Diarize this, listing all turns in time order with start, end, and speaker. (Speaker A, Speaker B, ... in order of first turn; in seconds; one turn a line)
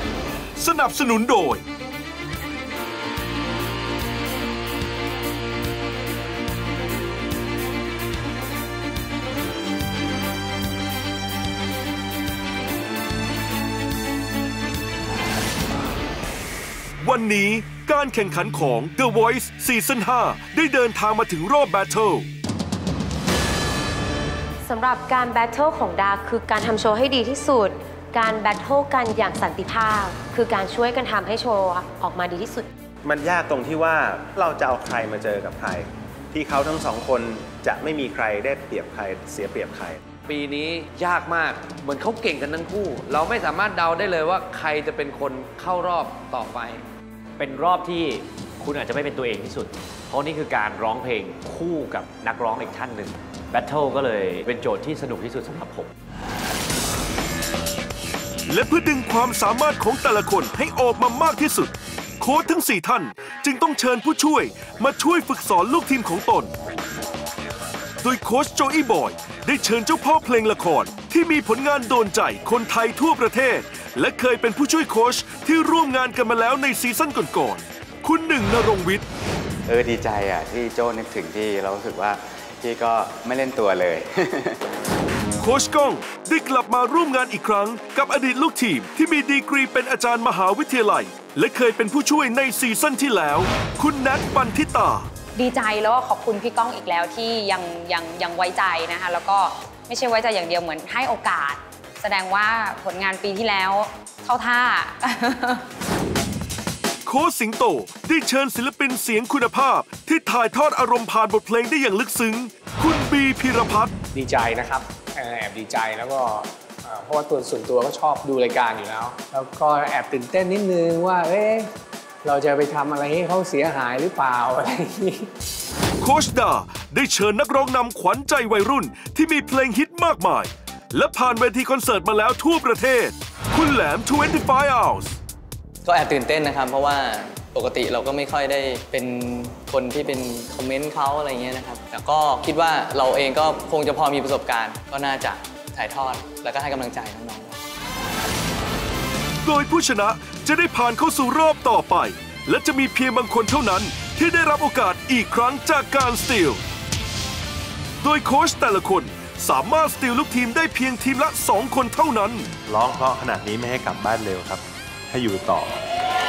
Speaker A: 0.6-1.6
Speaker A: 17.0-22.3
Speaker B: 26.2-27.4
Speaker B: 28.5-29.5
Speaker B: 30.1-32.5
Speaker C: 33.0-40.0
Speaker D: 40.3-46.8
Speaker E: 47.4-55.9
Speaker A: 58.5-66.5
Speaker A: 68.0-79.0
Speaker F: 79.7-84.5
Speaker A: 85.4-95.1
Speaker G: 95.3-105.6
Speaker A: 107.1-113.9
Speaker H: 114.1-121.7
Speaker H: 122.2-125.3
Speaker A: 126.0-135.2
Speaker I: 135.8-147.6
Speaker A: 149.4-156.6
Speaker A: 158.0-162.5
Speaker C: 162.7-165.8